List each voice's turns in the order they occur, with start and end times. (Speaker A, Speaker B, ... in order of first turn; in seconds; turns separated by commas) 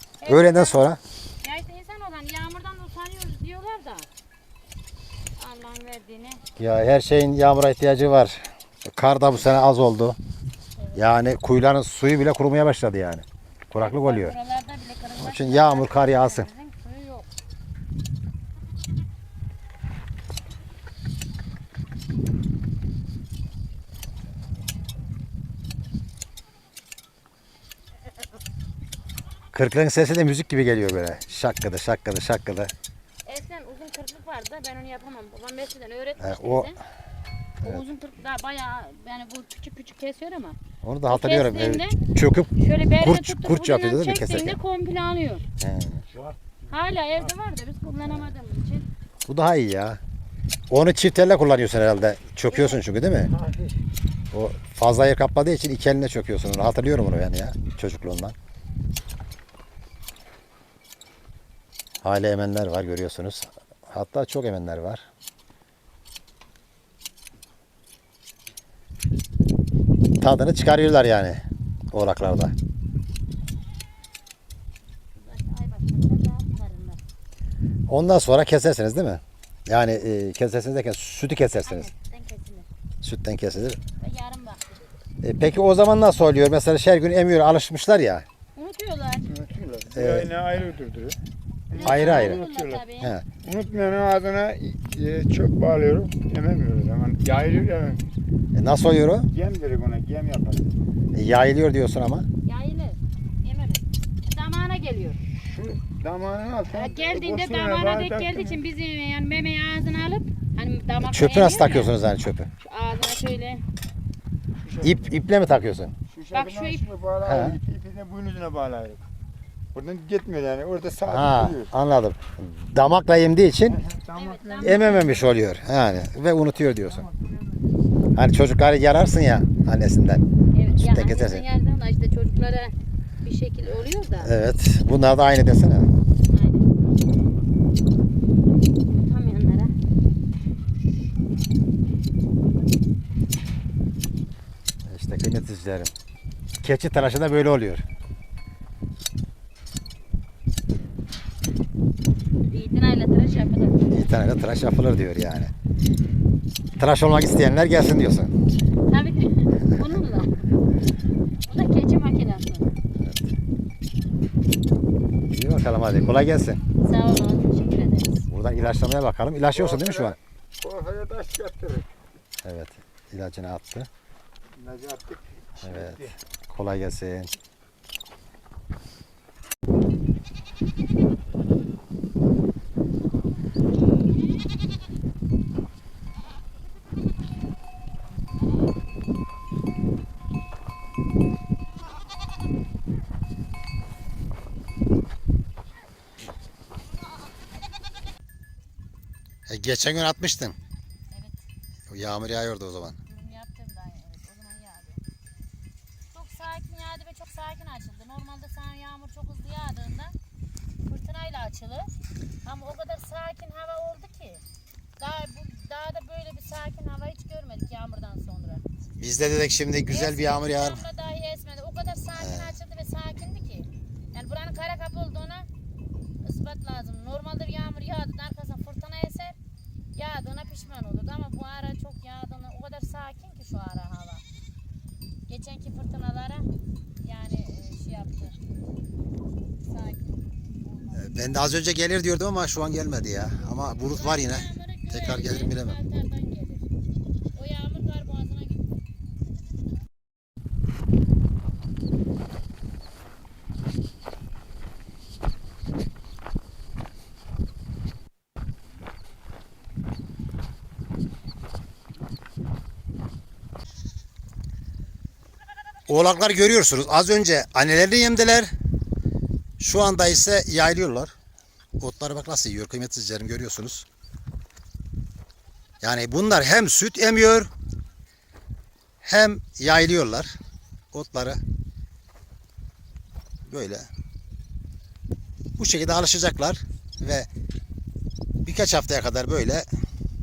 Speaker A: 0.2-0.8, Speaker B: 0.2-1.0, Speaker A: 1.4-4.1, Speaker A: 5.4-6.4, Speaker B: 6.6-10.2, Speaker A: 10.8-11.0, Speaker B: 10.9-14.3, Speaker A: 13.8-17.3, Speaker B: 15.2-16.5, Speaker B: 29.5-32.7, Speaker A: 33.2-36.8, Speaker B: 36.2-36.7, Speaker A: 37.6-42.0, Speaker B: 40.8-44.6, Speaker A: 42.6-45.5, Speaker B: 45.6-46.0, Speaker C: 46.1-46.5, Speaker A: 46.7-48.9, Speaker B: 49.2-50.0, Speaker B: 50.7-53.3, Speaker A: 52.5-52.8, Speaker C: 53.3-53.8, Speaker B: 54.3-58.4, Speaker B: 62.0-65.0, Speaker B: 70.2-71.4, Speaker B: 71.9-72.5, Speaker A: 75.1-77.0, Speaker B: 77.9-81.9, Speaker A: 81.6-82.7, Speaker B: 83.0-83.8, Speaker A: 84.0-84.6, Speaker B: 85.2-88.2, Speaker A: 88.5-89.3, Speaker C: 89.3-91.2, Speaker B: 89.9-90.3, Speaker C: 91.7-92.8, Speaker A: 91.7-93.1, Speaker B: 91.8-92.4, Speaker C: 93.4-98.0, Speaker B: 98.5-99.3, Speaker C: 99.3-100.7, Speaker B: 101.1-102.3, Speaker A: 102.4-105.2, Speaker C: 105.3-108.6, Speaker A: 106.7-111.9, Speaker B: 111.0-112.5, Speaker A: 112.6-113.6, Speaker C: 114.6-115.2, Speaker B: 114.8-115.9, Speaker C: 116.1-119.0, Speaker A: 116.3-116.8, Speaker B: 117.2-117.6, Speaker C: 119.7-121.7, Speaker B: 121.0-123.8, Speaker C: 123.7-125.2, Speaker A: 124.1-125.2, Speaker B: 124.6-127.1, Speaker C: 126.9-127.6, Speaker B: 128.1-130.2, Speaker A: 130.5-134.3, Speaker B: 130.8-131.4, Speaker B: 134.2-135.9, Speaker A: 136.2-136.7, Speaker A: 138.8-139.7, Speaker B: 144.8-145.9, Speaker B: 146.6-147.8, Speaker A: 152.5-153.9, Speaker B: 153.9-155.5, Speaker B: 156.8-158.3, Speaker A: 158.9-160.5, Speaker A: 161.5-162.7, Speaker B: 163.0-163.3, Speaker B: 165.3-166.6, Speaker A: 166.8-168.3, Speaker B: 168.3-170.2, Speaker C: 169.5-171.9, Speaker B: 172.4-173.9, Speaker C: 174.6-176.1, Speaker B: 175.6-177.3, Speaker B: 199.4-200.6, Speaker A: 201.1-201.4, Speaker B: 201.9-203.0, Speaker A: 203.1-205.0, Speaker A: 206.1-210.1, Speaker A: 210.8-211.9, Speaker A: 212.4-214.4, Speaker A: 215.0-218.6, Speaker B: 219.0-220.8, Speaker A: 219.9-225.5, Speaker B: 222.2-222.5, Speaker A: 226.2-229.4, Speaker A: 229.9-234.2, Speaker A: 235.3-236.5, Speaker A: 237.0-238.4, Speaker A: 239.6-241.4, Speaker B: 240.9-245.8, Speaker A: 243.4-246.6, Speaker A: 247.3-248.8, Speaker B: 265.9-268.5, Speaker B: 269.6-271.1, Speaker B: 271.8-273.9, Speaker B: 275.8-277.5, Speaker B: 279.0-280.3, Speaker B: 280.9-281.4, Speaker B: 283.4-283.9, Speaker B: 285.6-287.3, Speaker B: 288.4-289.6